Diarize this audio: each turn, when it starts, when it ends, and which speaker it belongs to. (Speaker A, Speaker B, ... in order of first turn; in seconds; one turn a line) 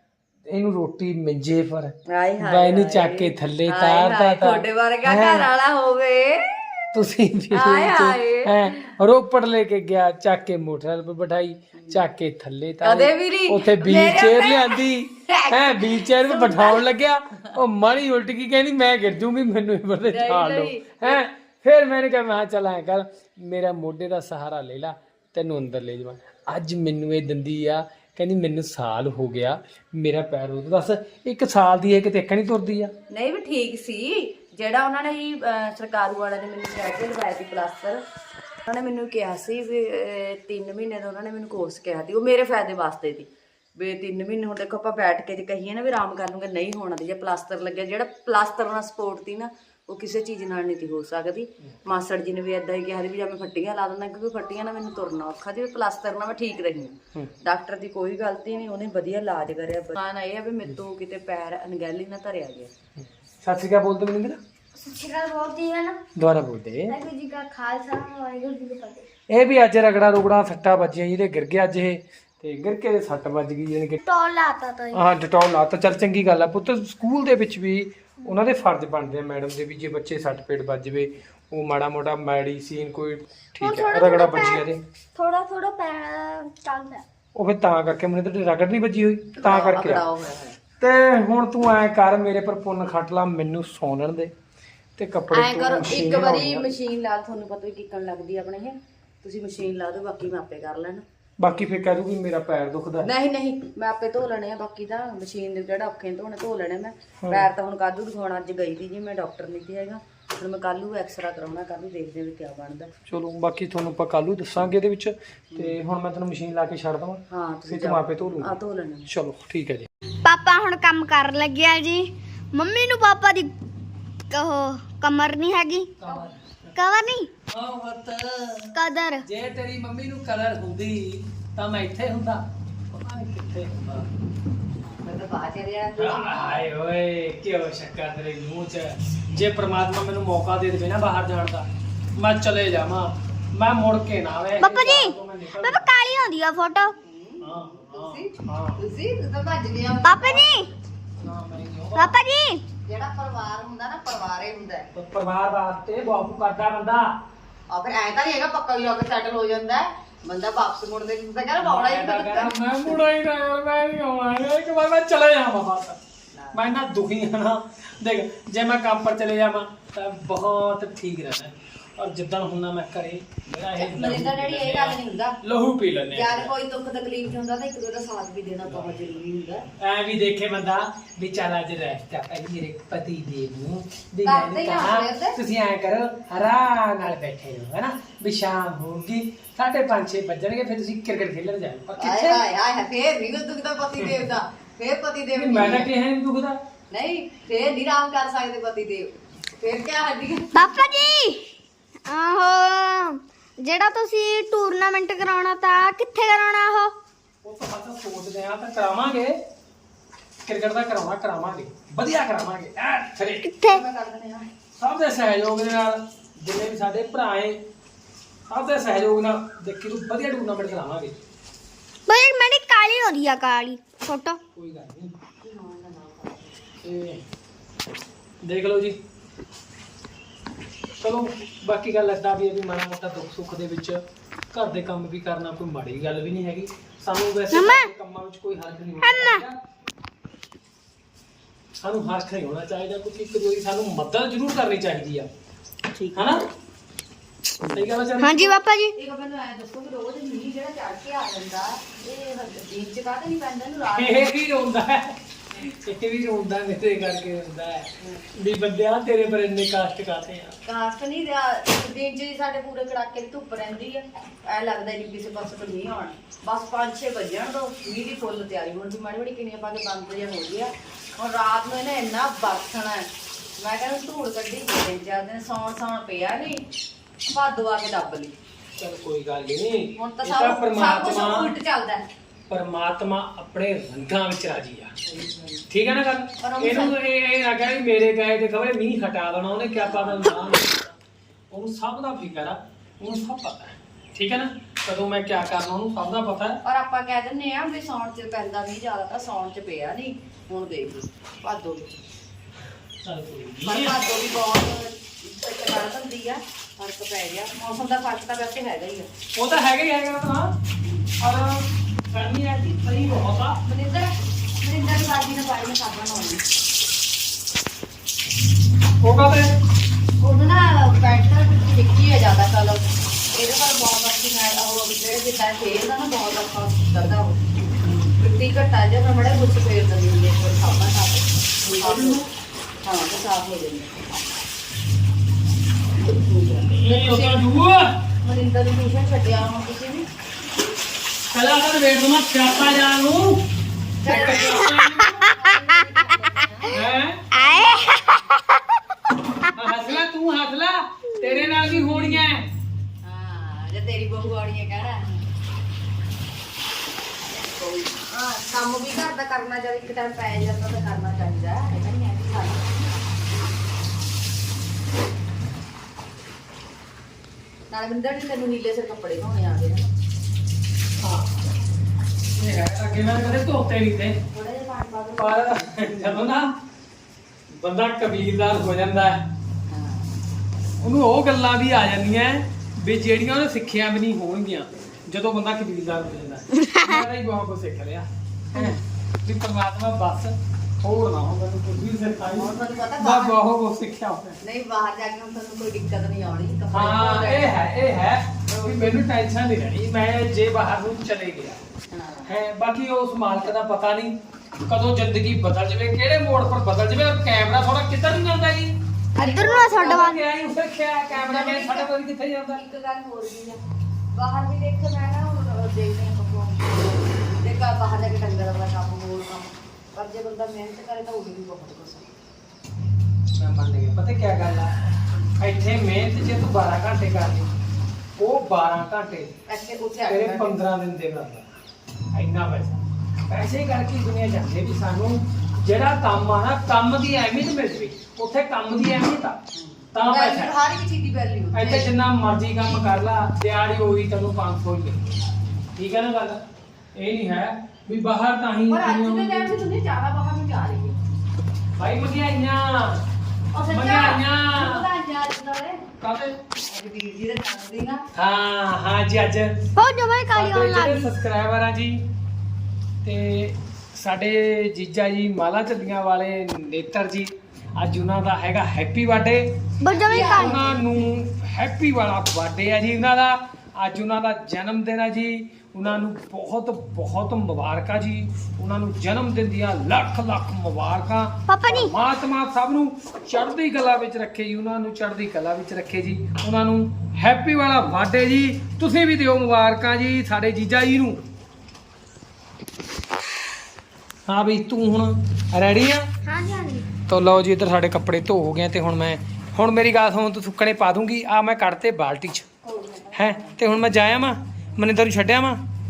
Speaker A: 0.5-5.5
Speaker B: 2.1-6.9
Speaker A: 6.9-32.9
Speaker B: 7.5-9.0
Speaker B: 11.8-12.0
Speaker B: 12.8-16.9
Speaker B: 20.1-21.2
Speaker B: 33.1-38.0
Speaker B: 38.7-62.7
Speaker A: 63.4-64.4
Speaker C: 64.8-66.0
Speaker A: 66.2-67.0
Speaker C: 66.9-69.0
Speaker A: 69.3-74.0
Speaker C: 74.0-75.0
Speaker A: 74.9-84.8
Speaker C: 83.6-84.6
Speaker C: 85.2-87.0
Speaker A: 87.3-90.0
Speaker B: 89.3-90.6
Speaker A: 90.8-94.3
Speaker A: 95.0-96.7
Speaker B: 95.3-101.0
Speaker A: 101.4-103.1
Speaker B: 103.0-112.9
Speaker A: 113.1-118.5
Speaker B: 117.3-119.1
Speaker A: 119.1-119.9
Speaker C: 120.2-123.5
Speaker C: 124.3-125.9
Speaker A: 126.0-126.7
Speaker C: 126.7-127.3
Speaker A: 127.5-134.1
Speaker C: 128.7-129.2
Speaker B: 134.8-136.7
Speaker A: 136.0-145.8
Speaker C: 144.6-146.9
Speaker B: 147.0-150.5
Speaker A: 147.4-148.8
Speaker C: 150.0-150.7
Speaker A: 151.2-152.2
Speaker C: 152.0-152.6
Speaker B: 152.9-154.9
Speaker A: 154.9-157.2
Speaker B: 157.7-163.0
Speaker A: 161.6-166.0
Speaker B: 166.3-166.7
Speaker A: 166.5-176.5
Speaker B: 173.7-175.4
Speaker B: 176.1-179.6
Speaker A: 179.8-192.4
Speaker B: 184.2-185.4
Speaker B: 192.0-195.9
Speaker A: 195.3-196.6
Speaker B: 196.9-200.8
Speaker C: 200.5-201.5
Speaker C: 202.1-206.9
Speaker A: 207.4-209.4
Speaker A: 210.5-213.5
Speaker C: 213.5-213.8
Speaker B: 213.6-214.5
Speaker A: 214.8-217.6
Speaker A: 218.5-221.2
Speaker C: 222.1-224.4
Speaker A: 224.5-225.1
Speaker B: 225.4-226.7
Speaker A: 226.8-227.2
Speaker A: 228.4-229.0
Speaker A: 231.0-239.6
Speaker C: 237.5-237.9
Speaker C: 239.0-239.4
Speaker A: 241.8-245.3
Speaker A: 246.1-246.5
Speaker A: 247.7-248.6
Speaker C: 248.2-248.9
Speaker B: 248.9-254.4
Speaker A: 254.0-260.6
Speaker B: 258.0-258.3
Speaker B: 260.6-276.6
Speaker B: 277.3-278.4
Speaker A: 278.8-281.5
Speaker B: 280.0-282.1
Speaker A: 282.5-284.9
Speaker B: 285.0-285.6
Speaker A: 285.7-290.9
Speaker B: 286.4-287.0
Speaker B: 289.9-290.6
Speaker A: 291.5-296.6
Speaker B: 296.6-302.0
Speaker A: 303.0-304.1
Speaker B: 303.6-309.1
Speaker A: 309.4-310.5
Speaker B: 310.8-311.1
Speaker A: 311.2-313.6
Speaker B: 313.6-316.4
Speaker A: 319.0-319.5
Speaker B: 320.2-332.2
Speaker A: 331.6-332.2
Speaker B: 332.8-334.0
Speaker B: 336.0-337.4
Speaker A: 336.7-337.9
Speaker B: 338.2-340.1
Speaker A: 341.3-343.4
Speaker B: 344.0-346.8
Speaker A: 344.0-345.3
Speaker C: 344.4-345.2
Speaker A: 346.6-347.5
Speaker C: 347.3-348.4
Speaker B: 347.5-347.8
Speaker A: 349.5-352.5
Speaker B: 351.4-352.2
Speaker B: 353.0-355.2
Speaker B: 357.2-362.9
Speaker B: 367.7-369.9
Speaker A: 371.0-371.3
Speaker A: 372.3-374.2
Speaker B: 374.3-376.3
Speaker A: 375.2-376.5
Speaker A: 377.5-379.2
Speaker B: 379.7-380.1
Speaker A: 380.8-394.4
Speaker B: 392.2-393.4
Speaker B: 394.4-397.6
Speaker A: 396.7-401.6
Speaker B: 398.5-399.0
Speaker B: 401.9-402.3
Speaker A: 402.3-404.1
Speaker A: 404.6-408.8
Speaker B: 409.1-410.0
Speaker C: 409.2-410.2
Speaker A: 409.8-412.6
Speaker B: 411.1-411.9
Speaker B: 412.5-413.6
Speaker B: 414.1-422.1
Speaker A: 423.4-424.7
Speaker A: 425.4-427.5
Speaker A: 428.2-429.3
Speaker B: 429.5-430.6
Speaker A: 430.1-431.5
Speaker A: 432.1-439.4
Speaker B: 439.5-441.9
Speaker A: 439.9-440.6
Speaker A: 441.5-445.2
Speaker A: 445.8-446.4
Speaker A: 446.9-449.6
Speaker B: 448.7-451.0
Speaker A: 451.8-453.0
Speaker B: 453.5-455.8
Speaker A: 453.7-454.9
Speaker A: 456.0-456.4
Speaker B: 456.7-458.0
Speaker A: 458.1-459.6
Speaker C: 459.8-461.1
Speaker A: 460.3-462.0
Speaker A: 463.0-469.5
Speaker C: 469.8-470.6
Speaker B: 469.9-471.0
Speaker A: 470.1-491.2
Speaker C: 481.5-481.9
Speaker A: 494.2-496.1
Speaker C: 496.2-496.9
Speaker A: 497.1-502.5
Speaker B: 502.6-503.7
Speaker A: 503.1-505.6